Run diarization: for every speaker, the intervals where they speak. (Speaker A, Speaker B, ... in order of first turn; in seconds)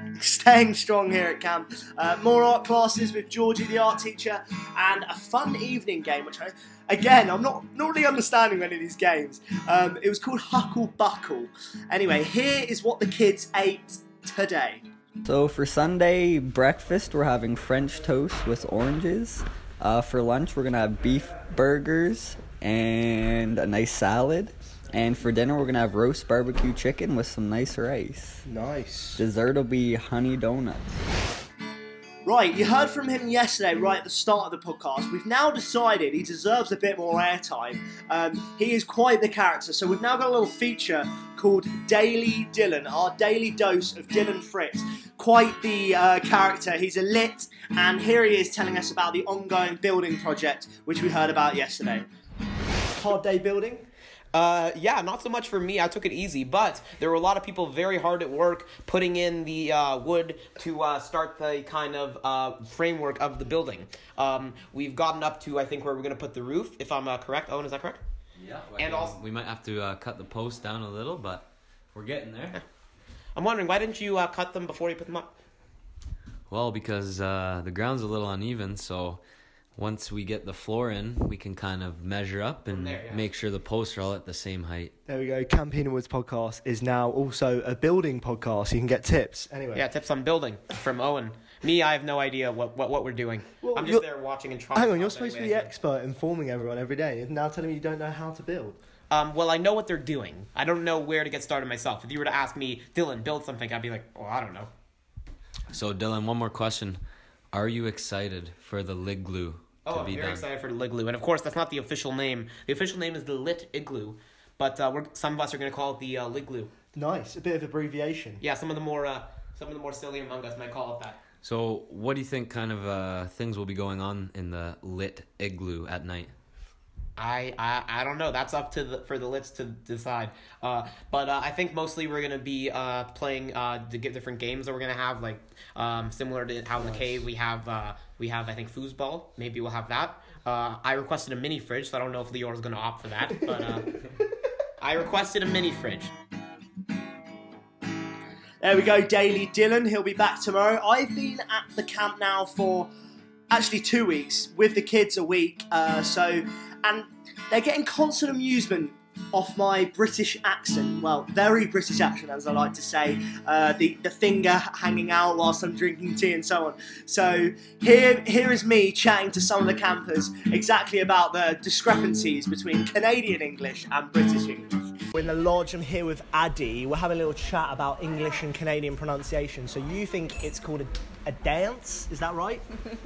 Speaker A: 0.2-14.8, 32.2-52.1, 148.6-152.9, 153.5-174.7
Speaker B: 15.2-28.4, 29.2-31.0
Speaker C: 28.5-29.2, 53.0-53.9, 85.1-89.8, 93.6-94.0, 94.7-98.8, 116.9-118.4, 136.8-137.2, 175.1-182.7
Speaker D: 54.3-68.0, 68.8-69.2, 73.4-75.3, 82.7-83.3, 89.7-95.7, 99.1-104.7, 109.8-116.7, 118.4-121.2, 127.2-144.0, 144.8-146.1
Speaker E: 68.4-72.6, 76.5-79.2, 79.8-84.9, 105.7-107.0, 107.5-110.5, 121.4-126.3